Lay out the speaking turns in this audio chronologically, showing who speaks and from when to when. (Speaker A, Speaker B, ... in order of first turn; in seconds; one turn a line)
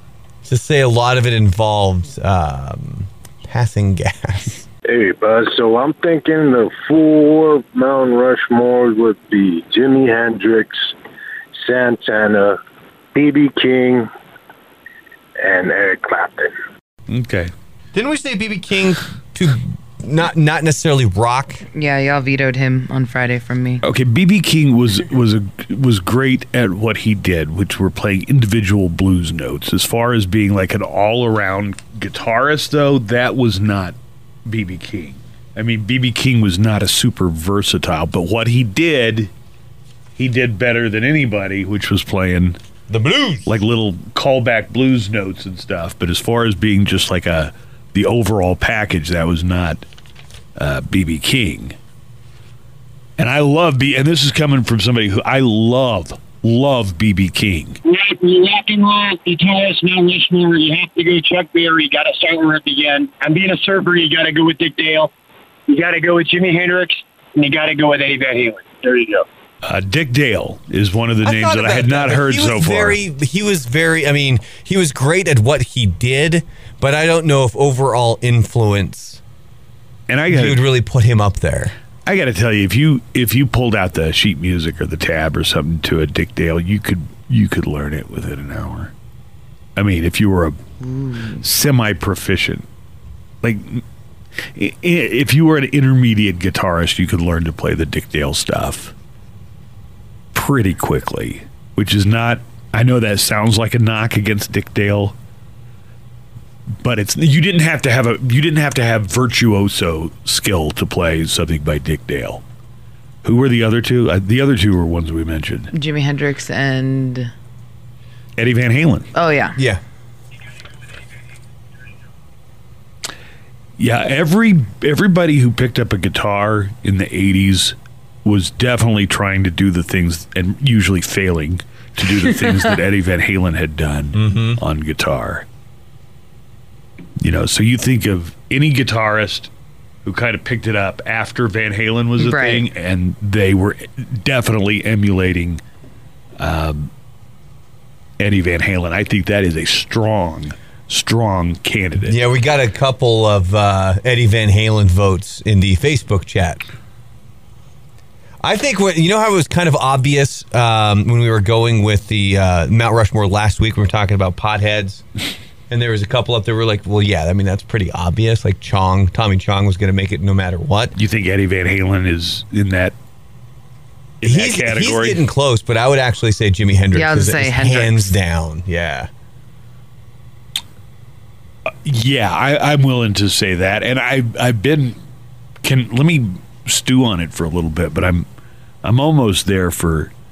Speaker A: 0.4-4.7
Speaker B: 4.9-10.9
Speaker B: 11.6-12.6
Speaker B: 13.1-14.1
Speaker B: 15.4-16.5
Speaker C: 17.1-17.5
Speaker A: 17.9-21.6
Speaker D: 21.7-23.8
Speaker C: 23.8-39.3
Speaker C: 40.2-42.6
Speaker A: 42.9-43.6
Speaker C: 43.5-49.8
Speaker C: 50.5-51.7
Speaker C: 53.2-57.8
Speaker E: 57.8-65.1
Speaker E: 65.7-69.2
Speaker C: 69.6-73.0
Speaker A: 71.2-79.2
Speaker C: 80.1-80.6
Speaker A: 80.3-81.7
Speaker C: 82.0-88.9
Speaker C: 89.8-90.6
Speaker D: 90.8-91.4
Speaker C: 91.4-92.7
Speaker C: 93.4-93.8
Speaker C: 94.5-98.9
Speaker C: 100.3-105.1
Speaker C: 106.8-112.4
Speaker C: 113.2-115.7
Speaker D: 115.7-117.3
Speaker C: 118.4-119.1
Speaker D: 119.1-119.6
Speaker A: 119.5-119.8
Speaker C: 123.8-135.4
Speaker A: 134.1-134.6
Speaker C: 137.2-139.5
Speaker C: 140.0-145.6
Speaker D: 142.2-142.6
Speaker C: 146.4-146.9
Speaker C: 148.2-152.2
Speaker A: 152.0-156.6
Speaker A: 158.4-165.0
Speaker A: 165.7-170.9
Speaker C: 170.9-172.9
Speaker C: 174.2-175.2
Speaker A: 174.2-179.1
Speaker D: 176.9-178.1
Speaker C: 181.8-185.0
Speaker C: 185.6-188.2
Speaker C: 188.8-190.1